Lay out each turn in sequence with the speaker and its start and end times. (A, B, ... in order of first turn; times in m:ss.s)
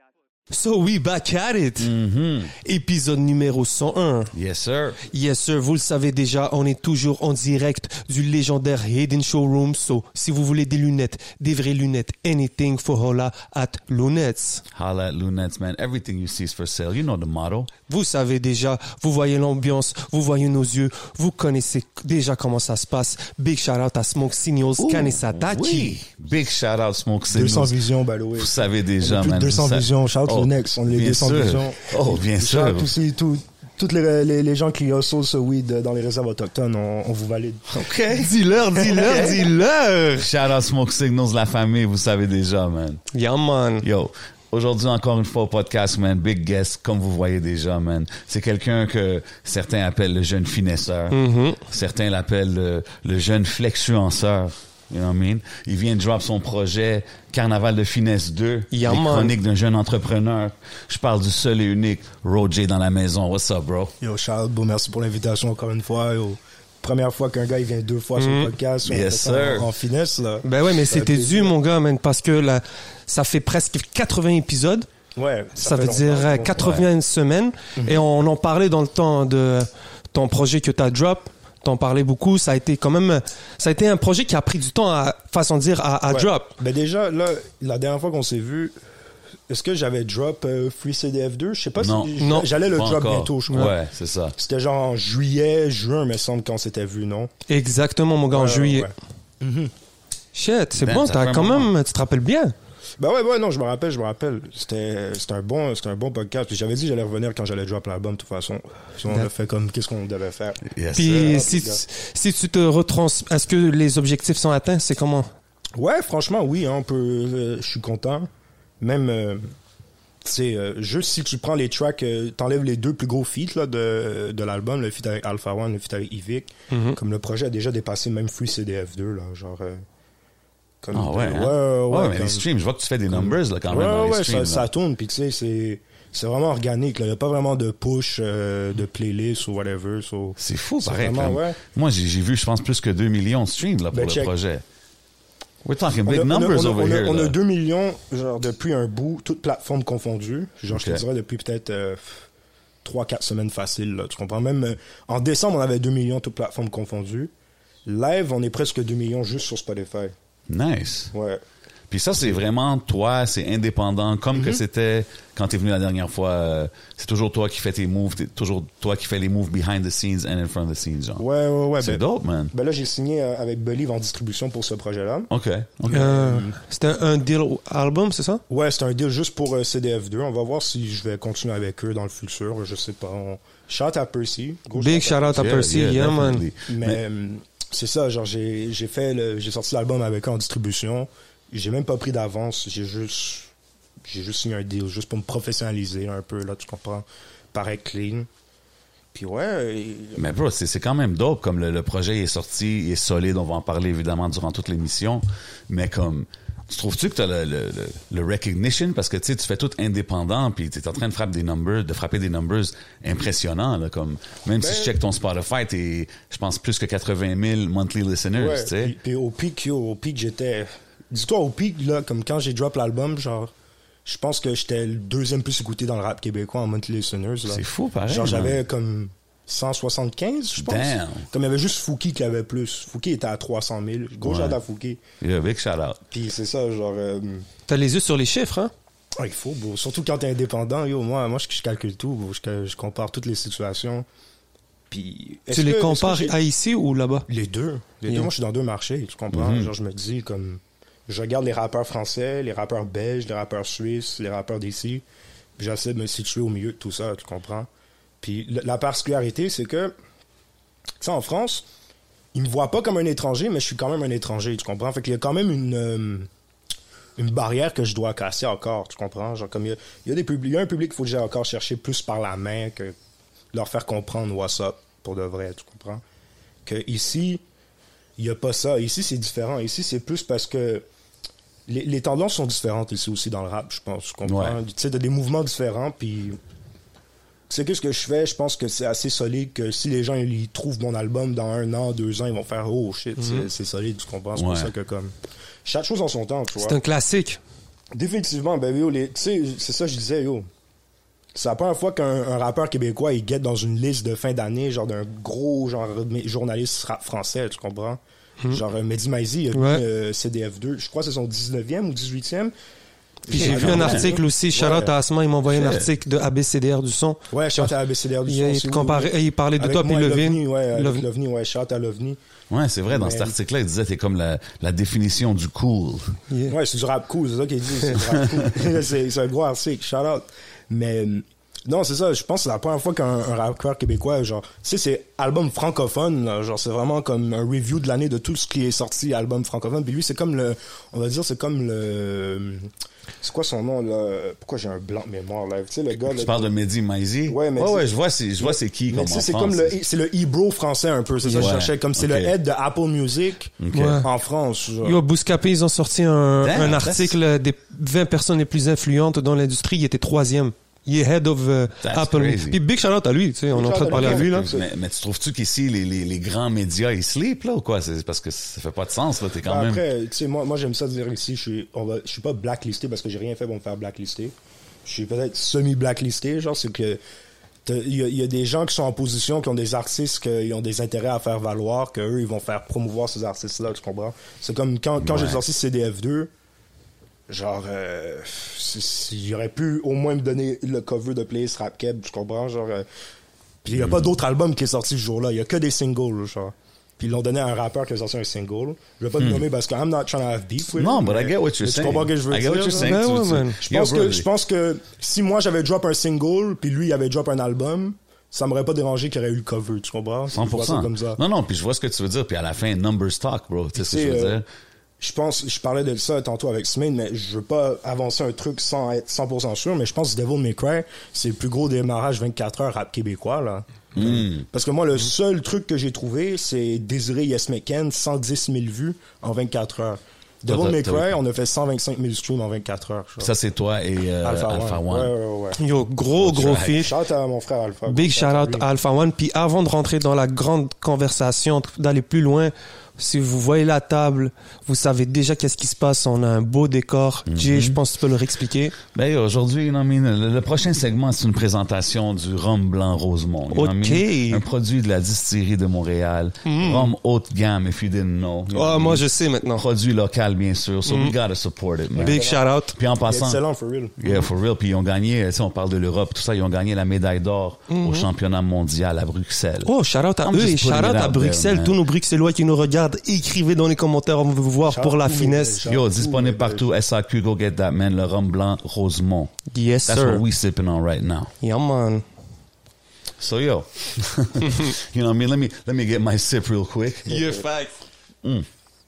0:00.5-0:01.9 A
0:01.8-0:02.5 B
0:02.6-0:04.3 A
0:04.3-0:05.0 B
0:05.1-0:14.6 A
0:14.7-0:17.7 B
0:17.9-0:26.0 A
0:24.8-0:27.8 B
0:27.3-0:37.8 C
0:28.4-0:32.9 B
0:37.7-0:43.0 B
0:38.2-0:39.8 A
0:38.8-0:39.4 C
0:43.1-0:43.8 A
0:43.8-1:03.9 B
0:51.1-0:51.6 A
0:58.7-0:59.4 A
1:04.0-1:11.5 C
1:08.2-1:08.5 A
1:08.8-1:09.7 B
1:10.4-1:14.9 A
1:15.2-1:16.6 C
1:15.6-1:26.5 A
1:16.6-1:16.8 B
1:26.1-1:28.7 C
1:29.5-1:33.7 C
1:31.8-1:34.4 B
1:32.2-1:32.5 A
1:34.4-1:37.3 C
1:37.5-1:38.9 A
1:38.3-1:39.7 C
1:40.3-1:42.5 A
1:40.8-1:41.7 B
1:43.0-1:51.8 C
1:50.6-1:51.4 B
1:50.9-1:55.3 A
1:55.8-1:58.3 C
1:58.8-1:59.4 C
2:00.2-2:09.8 C
2:06.7-2:07.0 A
2:10.8-2:12.4 C
2:10.9-2:14.7 B
2:13.1-2:21.6 C
2:20.4-2:24.6 B
2:23.9-2:24.3 C
2:25.6-2:27.3 B
2:26.0-2:32.3 C
2:30.7-2:31.0 B
2:32.8-2:37.3 C
2:37.8-2:40.1 C
2:40.5-2:41.1 B
2:41.1-2:41.4 C
2:41.9-2:51.2 B
2:44.3-2:44.6 C
2:51.2-2:55.3 C
2:51.8-2:52.5 B
2:55.3-2:56.1 B
2:55.8-2:56.6 C
2:55.9-2:58.4 A
2:58.5-3:05.6 C
3:04.8-3:06.4 A
3:05.3-3:07.0 B
3:06.7-3:13.5 C
3:14.0-3:18.3 C
3:19.1-3:20.3 C
3:20.2-3:39.0 B
3:34.6-3:34.9 C
3:38.3-3:43.5 C
3:44.0-3:55.0 C
3:47.4-3:48.6 B
3:50.6-3:51.3 B
3:54.2-3:54.6 B
3:55.2-3:56.0 B
3:56.1-3:57.5 C
3:57.7-3:58.7 A
3:59.2-4:04.0 C
4:04.9-4:06.3 C
4:05.5-4:07.2 A
4:07.3-4:15.0 C
4:09.3-4:09.7 B
4:15.6-4:17.7 C
4:18.2-4:19.9 C
4:21.0-4:21.6 C
4:22.3-4:26.3 C
4:27.2-4:32.9 C
4:33.5-4:36.0 C
4:36.6-4:37.4 C
4:38.2-4:40.8 C
4:41.7-4:46.4 C
4:44.2-4:44.6 B
4:47.5-4:55.1 C
4:53.2-4:53.5 A
4:54.3-4:54.7 B
4:55.6-4:56.8 C
4:56.6-4:57.4 A
4:57.9-5:00.4 C
5:01.3-5:12.5 C
5:09.5-5:09.8 A
5:13.2-5:14.9 C
5:13.3-5:17.7 A
5:13.4-5:14.1 B
5:15.5-5:15.9 B
5:17.3-5:22.2 C
5:18.3-5:21.0 A
5:22.5-5:26.2 B
5:22.9-5:23.4 C
5:26.5-5:42.7 C
5:43.2-5:46.5 C
5:46.0-5:49.8 B
5:47.3-5:55.0 C
5:51.2-5:51.5 A
5:51.4-5:52.3 B
5:53.6-5:54.0 B
5:53.7-5:54.1 A
5:54.8-6:04.4 A
5:56.4-5:57.2 B
6:01.8-6:02.6 B
6:03.5-6:04.7 C
6:03.9-6:09.8 B
6:09.4-6:14.3 C
6:14.8-6:17.0 C
6:17.6-6:26.3 C
6:25.0-6:25.4 B
6:27.3-6:32.8 C
6:33.6-6:43.0 C
6:33.8-6:34.1 B
6:39.2-6:39.4 B
6:40.8-6:44.3 B
6:42.8-6:43.6 A
6:43.6-6:51.2 C
6:50.3-6:54.4 B
6:53.8-6:54.4 C
6:55.0-7:13.3 C
7:03.9-7:04.4 B
7:10.5-7:11.2 B
7:13.2-7:15.1 B
7:14.2-7:15.6 C
7:15.6-7:16.9 A
7:16.2-7:16.9 B
7:16.3-7:18.6 C
7:17.9-7:28.8 A
7:27.3-7:27.8 B
7:28.9-7:43.4 B
7:33.5-7:34.4 A
7:36.4-7:36.9 A
7:38.5-7:39.6 A
7:40.8-7:41.1 A
7:42.0-7:42.4 C
7:42.0-7:42.8 A
7:43.0-7:44.0 C
7:44.0-7:49.7 B
7:47.7-7:48.1 A
7:49.6-7:55.6 A
7:50.2-7:51.8 B
7:54.7-7:56.7 C
7:55.6-7:59.3 B
7:59.5-8:00.2 A
7:59.9-8:01.3 B
8:01.4-8:02.0 A
8:03.2-8:07.3 B
8:07.1-8:07.7 A
8:07.1-8:07.4 C